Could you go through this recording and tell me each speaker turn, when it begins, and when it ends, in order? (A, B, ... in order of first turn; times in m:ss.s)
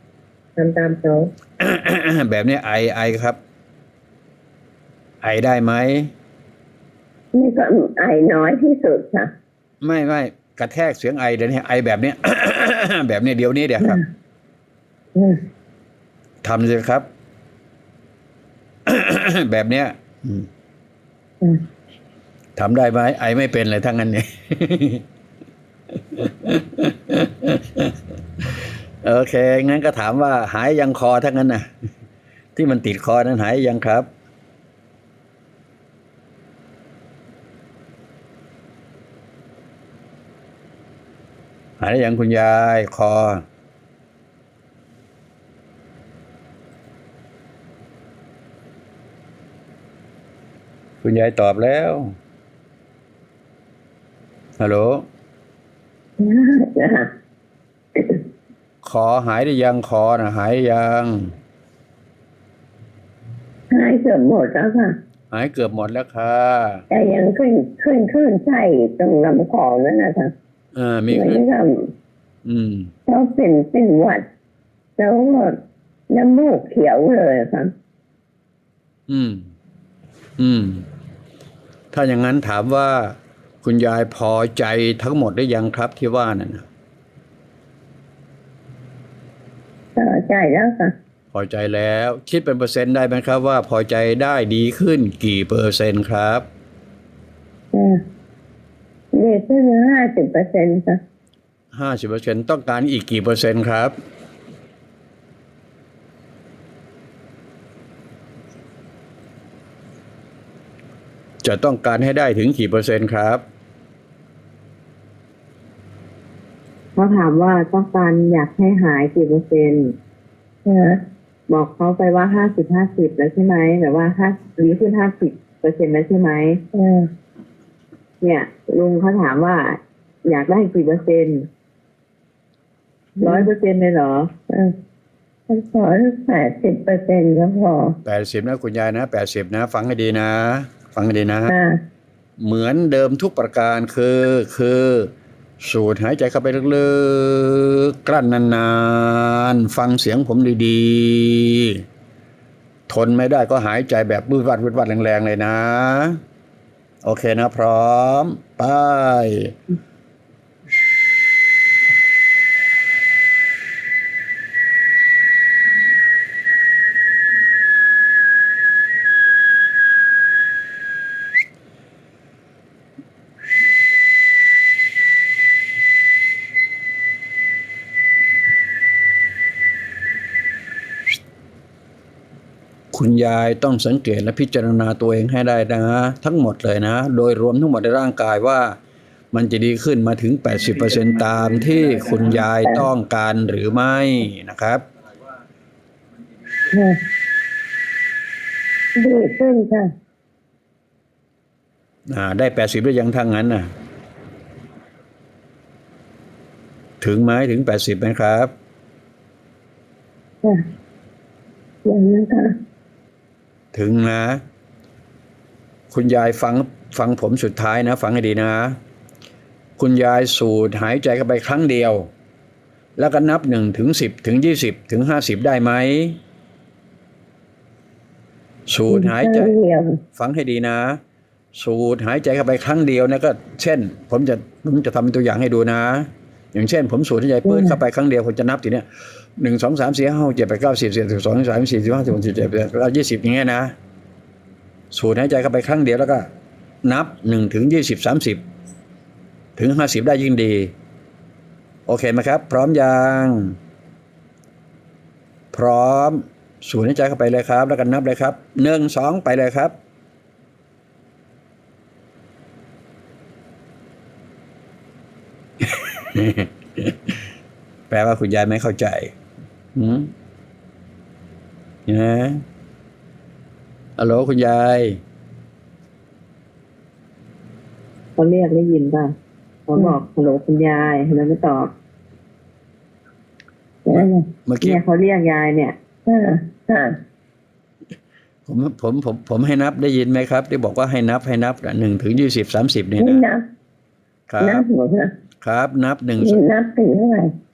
0:00.6-0:01.3 A
0:01.6-0:03.4 B
0:05.2-0:06.1 B
0:07.3-0:09.3 C
0:09.8-0:14.0 B
0:13.8-0:14.1 C
0:16.4-0:17.1 B
0:18.9-0:20.5 B
0:22.6-0:25.0 B
0:26.1-0:28.0 B
0:28.5-0:31.7 B
0:32.6-0:34.1 B
0:41.8-0:43.4 B
0:51.0-0:52.1 B
0:54.6-0:55.0 B
0:56.2-0:57.1 C
0:58.8-1:01.3 B
1:03.7-1:04.9 C
1:05.3-1:06.8 B
1:06.9-1:10.3 C
1:10.7-1:11.4 B
1:11.1-1:11.9 C
1:12.4-1:12.9 B
1:13.1-1:14.2 C
1:15.0-1:15.5 C
1:16.1-1:17.7 C
1:19.1-1:19.5 B
1:20.4-1:20.8 B
1:21.9-1:26.6 B
1:30.0-1:30.9 C
1:31.3-1:36.4 B
1:37.7-1:38.0 C
1:39.1-1:41.0 C
1:41.7-1:43.9 B
1:51.4-1:53.4 B
1:57.0-1:59.9 A
2:00.7-2:01.0 C
2:01.5-2:06.6 A
2:06.7-2:07.1 C
2:08.2-2:11.5 A
2:13.2-2:13.5 C
2:13.2-2:14.3 A
2:15.5-2:18.0 C
2:18.0-2:21.5 B
2:21.5-2:21.8 C
2:22.4-2:25.1 B
2:25.6-2:31.8 B
2:32.9-2:36.2 B
2:37.0-2:39.5 B
3:02.9-3:08.8 B
3:09.3-3:14.8 B
3:12.6-3:12.9 C
3:16.7-3:17.0 C
3:19.0-3:19.9 C
3:22.1-3:23.7 B
3:27.0-3:28.5 B
3:31.8-3:32.5 C
3:33.7-3:34.4 B
3:35.9-3:38.8 B
3:39.8-3:42.1 B
3:43.0-3:46.2 B
3:48.7-3:49.6 B
3:48.9-3:50.0 C
3:50.2-3:51.0 B
3:51.6-3:58.9 B
3:57.4-3:57.8 C
3:59.4-4:03.7 B
4:04.9-4:06.3 B
4:06.8-4:08.4 B
4:09.6-4:10.7 B
4:11.9-4:13.6 B
4:15.5-4:19.7 B
4:25.6-4:27.0 B
4:27.9-4:29.1 B
4:29.8-4:30.1 B
4:31.9-4:32.4 B
4:34.0-4:35.0 B
4:38.2-4:39.1 A
4:39.7-4:41.7 A
4:43.9-4:44.2 C
4:43.9-4:44.8 B
4:44.6-4:45.8 A
4:46.1-4:46.9 C
4:48.5-4:53.2 B
4:53.0-4:53.4 C
4:54.3-4:54.6 B
4:54.4-4:55.1 C
4:55.4-4:56.4 B
4:56.2-4:57.3 C